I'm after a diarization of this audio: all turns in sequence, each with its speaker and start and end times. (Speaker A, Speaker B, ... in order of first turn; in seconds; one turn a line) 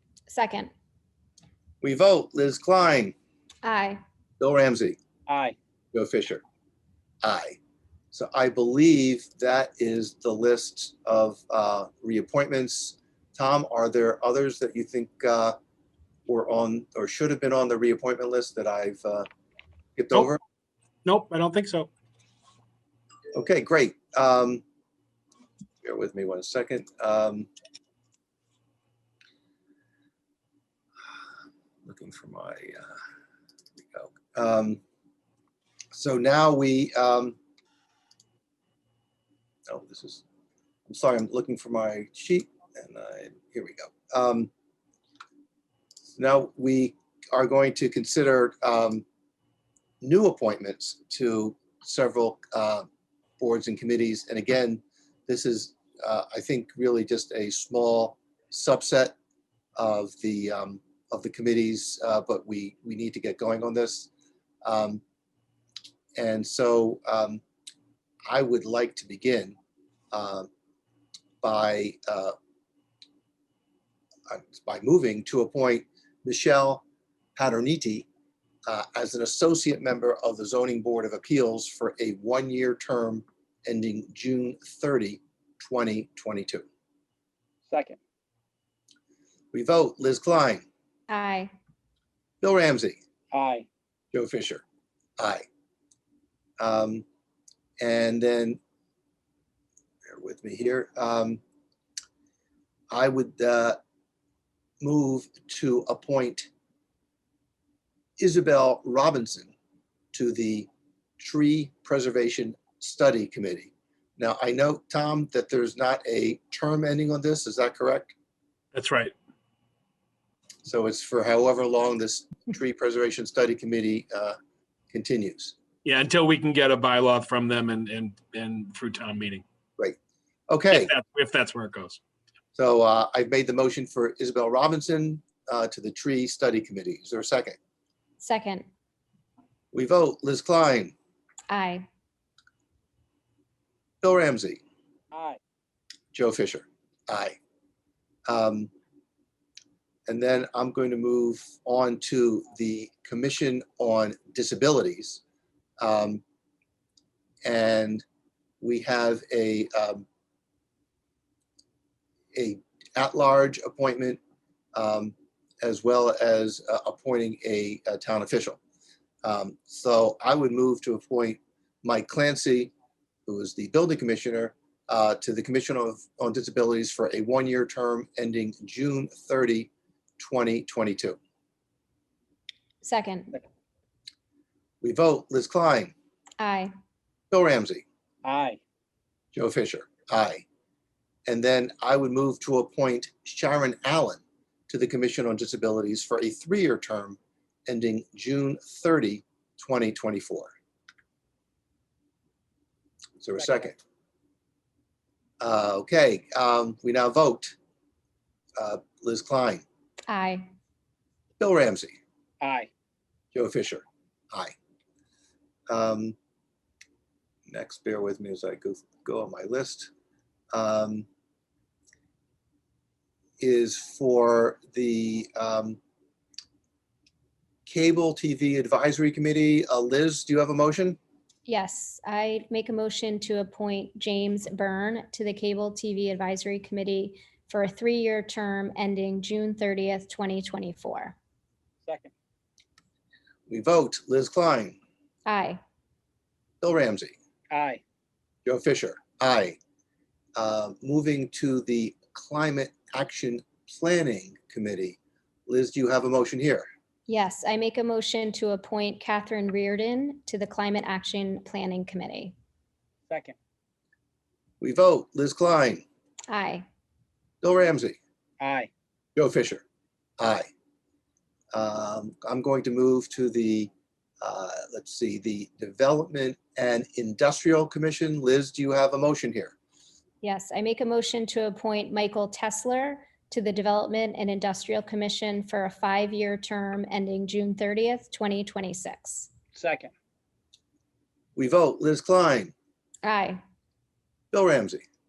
Speaker A: 0.3-0.7
Speaker B: 1.8-3.1
Speaker A: 3.6-4.0
Speaker B: 4.4-5.0
Speaker C: 5.3-5.5
Speaker B: 5.9-6.4
Speaker B: 7.2-7.6
Speaker B: 8.1-15.6
Speaker B: 16.3-19.3
Speaker B: 19.9-20.4
Speaker D: 21.0-21.9
Speaker B: 23.3-24.6
Speaker B: 25.8-27.5
Speaker B: 31.8-33.0
Speaker B: 33.8-34.8
Speaker B: 35.9-37.4
Speaker B: 39.7-40.2
Speaker B: 40.9-44.5
Speaker B: 46.1-49.0
Speaker B: 50.0-52.9
Speaker B: 53.4-59.1
Speaker B: 59.8-64.1
Speaker B: 64.6-65.0
Speaker B: 66.2-67.4
Speaker B: 68.3-69.6
Speaker B: 70.1-70.5
Speaker B: 71.4-72.3
Speaker B: 74.3-76.8
Speaker B: 77.3-78.1
Speaker B: 78.7-86.6
Speaker C: 87.7-88.0
Speaker B: 89.5-90.6
Speaker A: 91.1-91.5
Speaker B: 92.4-93.0
Speaker C: 93.3-93.7
Speaker B: 94.1-94.6
Speaker B: 95.2-95.4
Speaker B: 96.6-97.0
Speaker B: 97.8-98.6
Speaker B: 100.1-101.4
Speaker B: 102.9-103.8
Speaker B: 104.8-106.5
Speaker B: 108.2-109.5
Speaker B: 110.1-118.1
Speaker D: 118.7-119.1
Speaker B: 120.6-124.4
Speaker B: 124.9-125.5
Speaker D: 125.8-129.4
Speaker B: 130.5-130.9
Speaker D: 130.7-132.0
Speaker B: 132.5-137.6
Speaker A: 138.2-138.7
Speaker B: 139.7-140.9
Speaker A: 141.5-141.8
Speaker B: 144.0-144.6
Speaker C: 145.1-145.4
Speaker B: 146.1-147.4
Speaker B: 148.3-148.7
Speaker B: 150.1-155.2
Speaker B: 155.8-156.2
Speaker B: 157.4-158.0
Speaker B: 158.6-160.0
Speaker B: 162.3-164.2
Speaker B: 164.7-168.6
Speaker B: 169.2-172.7
Speaker B: 173.3-181.2
Speaker A: 182.8-183.4
Speaker B: 184.8-185.9
Speaker A: 186.4-186.7
Speaker B: 187.3-187.8
Speaker C: 188.2-188.6
Speaker B: 189.3-190.4
Speaker B: 191.3-200.5
Speaker B: 203.2-203.8
Speaker C: 203.4-203.7
Speaker B: 205.4-207.6
Speaker B: 208.6-209.6
Speaker A: 210.1-210.5
Speaker B: 211.4-211.9
Speaker C: 212.4-212.7
Speaker B: 213.3-214.5
Speaker B: 215.7-216.2
Speaker B: 217.5-219.9
Speaker B: 220.5-221.1
Speaker B: 223.4-225.8
Speaker B: 227.7-231.0
Speaker A: 231.4-241.1
Speaker C: 241.8-242.1
Speaker B: 243.5-244.8
Speaker A: 245.2-245.6
Speaker B: 246.6-247.1
Speaker C: 247.5-247.8
Speaker B: 248.4-249.6
Speaker B: 250.3-256.7
Speaker A: 257.1-262.3
Speaker C: 263.1-263.3
Speaker B: 264.6-265.8
Speaker A: 266.3-266.6
Speaker B: 267.4-268.0
Speaker C: 268.4-268.7
Speaker B: 269.1-269.6
Speaker B: 270.2-270.5
Speaker B: 271.5-273.7
Speaker B: 274.2-279.5
Speaker A: 280.2-289.3
Speaker C: 289.5-289.9
Speaker B: 291.4-292.5
Speaker A: 293.0-293.4
Speaker B: 294.3-294.8